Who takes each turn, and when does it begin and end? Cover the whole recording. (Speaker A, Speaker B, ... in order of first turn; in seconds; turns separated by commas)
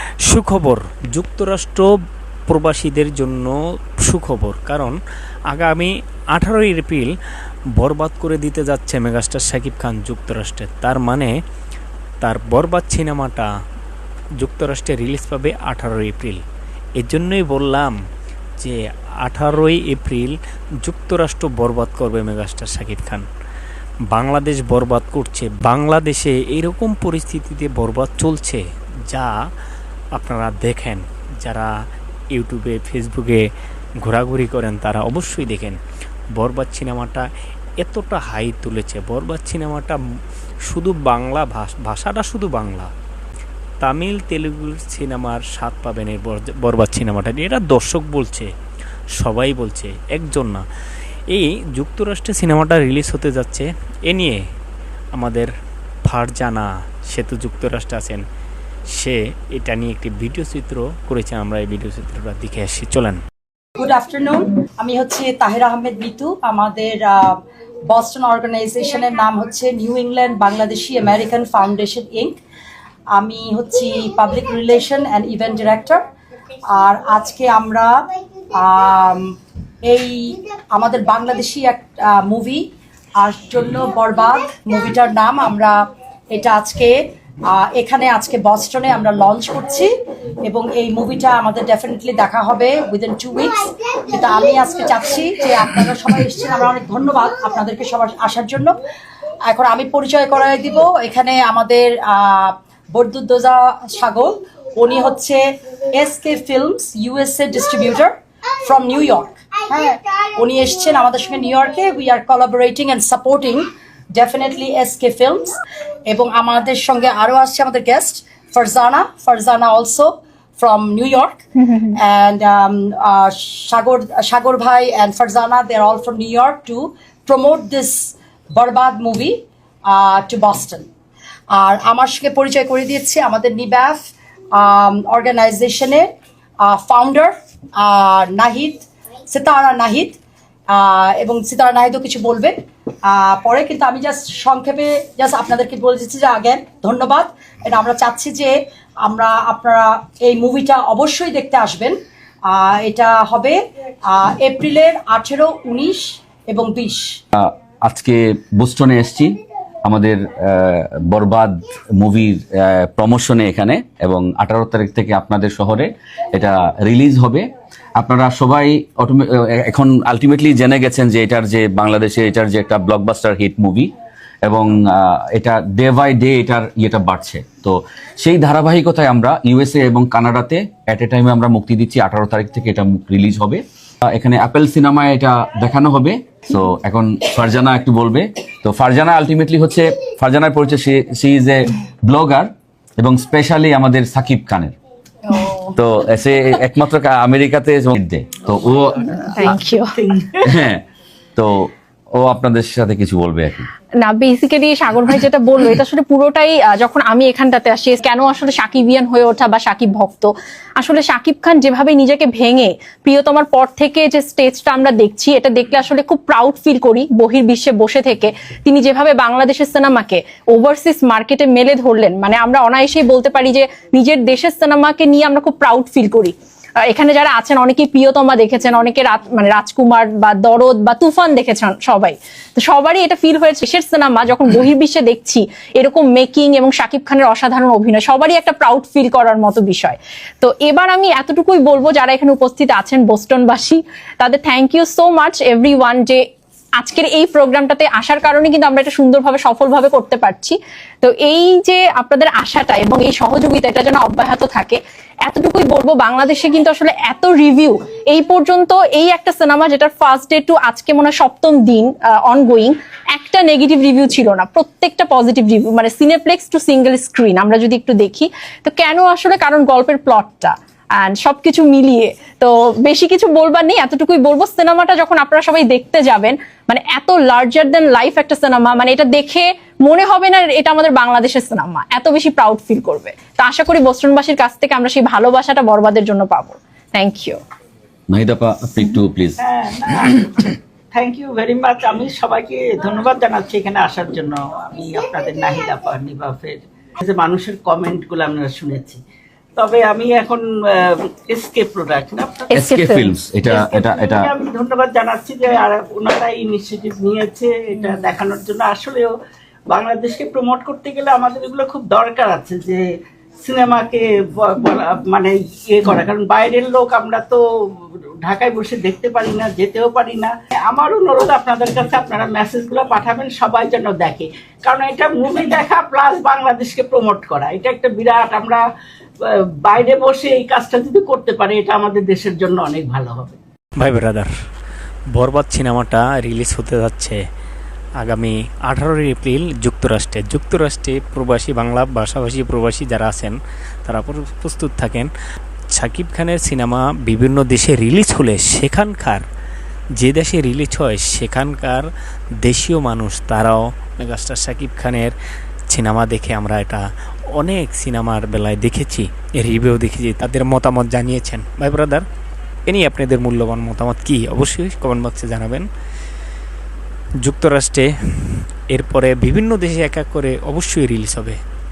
Speaker A: 0.3-1.9, Speaker A: 2.5-5.0, Speaker A: 5.5-7.1, Speaker A: 7.8-11.3, Speaker A: 12.2-13.5, Speaker A: 14.4-16.4, Speaker A: 17.0-18.0, Speaker A: 18.6-23.3, Speaker A: 24.1-29.4, Speaker A: 30.2-31.7, Speaker A: 32.3-33.5, Speaker A: 34.0-35.8, Speaker A: 36.4-37.3, Speaker A: 37.8-40.0, Speaker A: 40.7-42.9, Speaker A: 43.8-48.5, Speaker A: 49.2-50.6, Speaker A: 51.3-54.4, Speaker A: 55.1-55.5, Speaker A: 56.1-58.2, Speaker A: 58.9-63.2, Speaker B: 63.8-72.4, Speaker B: 73.1-76.1, Speaker B: 76.7-78.0, Speaker B: 78.5-85.8, Speaker B: 86.3-89.9, Speaker B: 90.5-98.8, Speaker B: 99.5-105.4, Speaker B: 106.0-121.4, Speaker C: 121.6-122.0, Speaker B: 121.9-130.9, Speaker B: 131.5-136.1, Speaker B: 136.6-140.2, Speaker B: 140.7-142.6, Speaker B: 143.1-157.2, Speaker D: 157.3-167.5, Speaker D: 168.0-173.9, Speaker D: 174.5-194.8, Speaker C: 195.3-195.7, Speaker D: 195.8-199.0, Speaker E: 198.5-200.7, Speaker C: 199.4-200.0, Speaker D: 200.4-200.8, Speaker D: 201.4-203.7, Speaker C: 204.0-246.2, Speaker C: 246.8-287.4, Speaker D: 288.1-289.4, Speaker E: 289.4-299.0, Speaker E: 299.6-302.8, Speaker C: 302.5-303.1, Speaker D: 302.6-304.3, Speaker E: 303.4-309.1, Speaker C: 307.8-308.0, Speaker E: 309.7-312.8, Speaker E: 313.4-328.6, Speaker E: 329.2-333.4, Speaker A: 333.8-334.3, Speaker A: 335.1-337.2, Speaker A: 338.0-345.1, Speaker A: 345.7-349.2, Speaker A: 350.0-351.9, Speaker A: 352.4-355.1, Speaker A: 355.7-362.1, Speaker A: 362.7-365.7, Speaker A: 367.2-371.4